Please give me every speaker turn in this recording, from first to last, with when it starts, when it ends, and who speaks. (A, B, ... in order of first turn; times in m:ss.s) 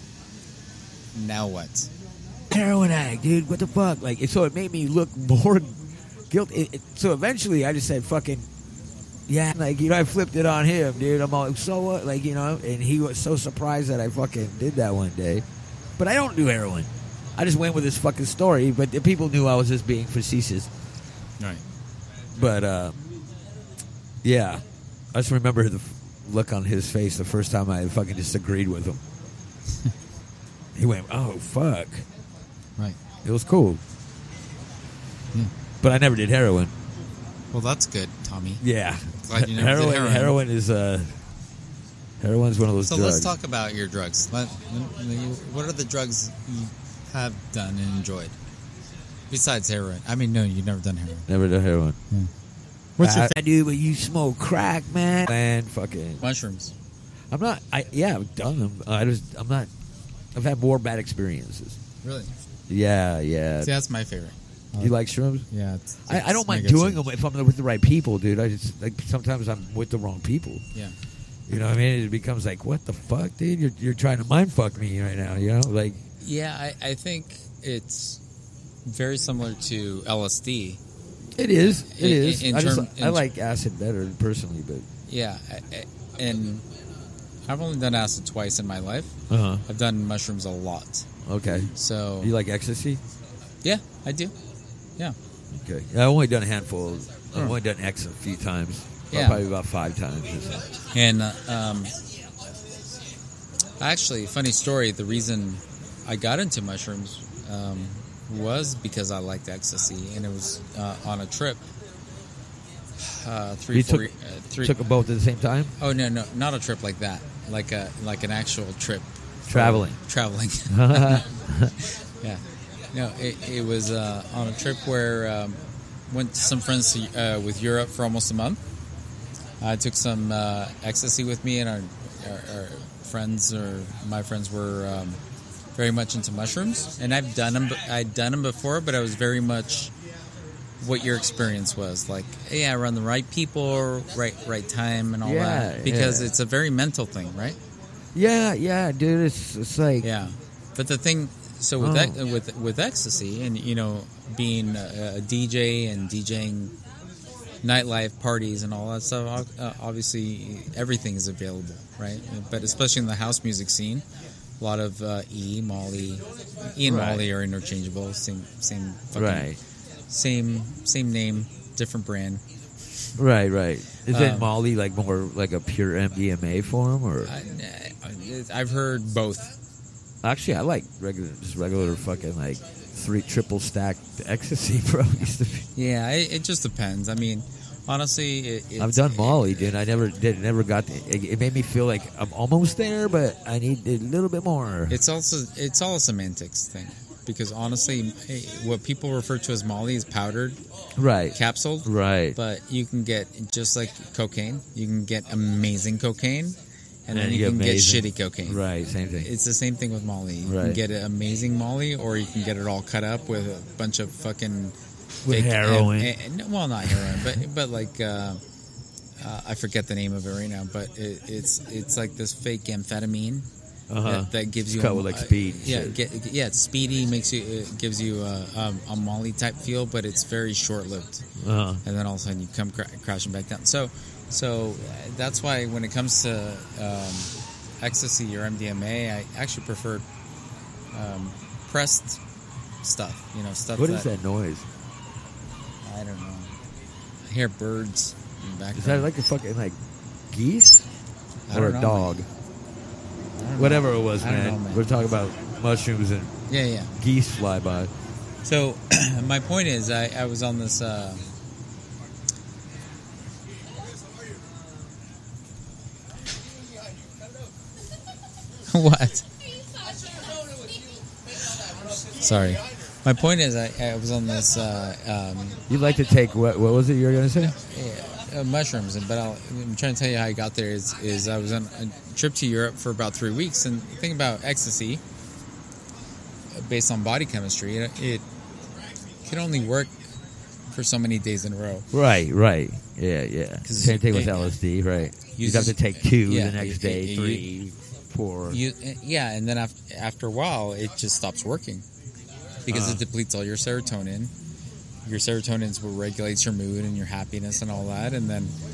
0:01.1-0:01.9 A
0:02.5-0:08.5 B
0:09.3-0:15.4 B
0:16.0-0:20.7 B
0:22.4-0:23.0 B
0:24.2-0:29.0 B
0:30.8-0:32.1 B
0:33.2-0:33.8 B
0:35.8-0:36.7 B
0:37.5-0:38.6 A
0:38.6-0:41.2 B
0:39.2-0:40.4 A
0:42.2-0:43.3 B
0:42.8-0:48.4 A
0:49.3-0:51.2 A
0:51.3-0:52.0 B
0:53.0-0:53.3 A
0:53.0-0:56.2 B
0:56.2-0:56.7 A
0:57.3-0:59.7 B
1:00.4-1:01.8 B
1:02.0-1:02.3 A
1:02.7-1:03.7 B
1:03.6-1:04.9 A
1:04.8-1:05.5 B
1:05.5-1:07.0 A
1:06.1-1:10.6 B
1:11.5-1:16.0 B
1:16.2-1:18.2 A
1:18.8-1:20.8 A
1:21.4-1:24.9 B
1:21.9-1:23.3 A
1:25.1-1:26.6 A
1:27.5-1:29.2 A
1:29.3-1:29.6 B
1:29.7-1:31.1 A
1:31.2-1:33.0 B
1:31.7-1:32.3 A
1:33.6-1:34.3 A
1:35.5-1:40.7 B
1:39.1-1:39.4 A
1:40.9-1:41.9 A
1:43.8-1:51.6 A
1:53.0-1:54.8 A
1:53.7-1:54.1 B
1:54.6-1:55.7 B
1:55.8-2:01.3 A
1:59.5-2:00.0 B
2:00.7-2:01.7 B
2:02.2-2:08.6 A
2:09.6-2:15.2 A
2:15.8-2:19.9 A
2:20.8-2:27.6 A
2:25.2-2:26.3 B
2:28.2-2:30.1 B
2:30.0-2:36.7 A
2:31.8-2:32.2 B
2:37.6-2:44.1 A
2:44.6-2:49.5 A
2:46.8-2:47.3 B
2:49.2-2:49.6 B
2:50.1-2:52.4 A
2:53.2-2:57.3 B
2:54.1-2:54.5 A
2:57.2-2:59.5 A
3:00.2-3:05.7 B
3:05.8-3:09.7 A
3:08.8-3:15.0 B
3:14.9-3:20.6 A
3:21.0-3:22.4 B
3:21.4-3:28.6 A
3:27.1-3:29.3 B
3:29.2-3:34.8 A
3:30.4-3:30.8 B
3:35.2-3:36.1 B
3:35.3-3:38.4 A
3:39.2-3:43.5 A
3:43.9-3:46.0 B
3:44.0-3:51.2 A
3:51.4-3:51.8 B
3:51.8-4:00.0 A
4:00.9-4:02.2 A
4:02.8-4:04.1 A
4:03.8-4:04.7 B
4:05.8-4:06.5 A
4:07.2-4:09.1 A
4:08.7-4:09.8 B
4:10.3-4:10.9 B
4:11.5-4:12.1 A
4:11.5-4:12.3 B
4:13.4-4:14.8 A
4:13.6-4:16.3 B
4:16.5-4:16.9 A
4:17.0-4:17.9 B
4:18.4-4:21.2 A
4:28.7-4:29.3 A
4:32.1-4:35.6 A
4:35.7-4:37.5 B
4:37.4-4:45.0 A
4:46.5-4:48.3 A
4:49.2-4:50.1 A
4:50.7-4:51.9 A
4:51.9-4:58.6 B
4:53.6-4:54.6 A
4:55.4-4:57.4 A
4:58.5-5:01.9 A
5:02.6-5:04.3 A
5:02.7-5:03.0 B
5:05.1-5:08.5 A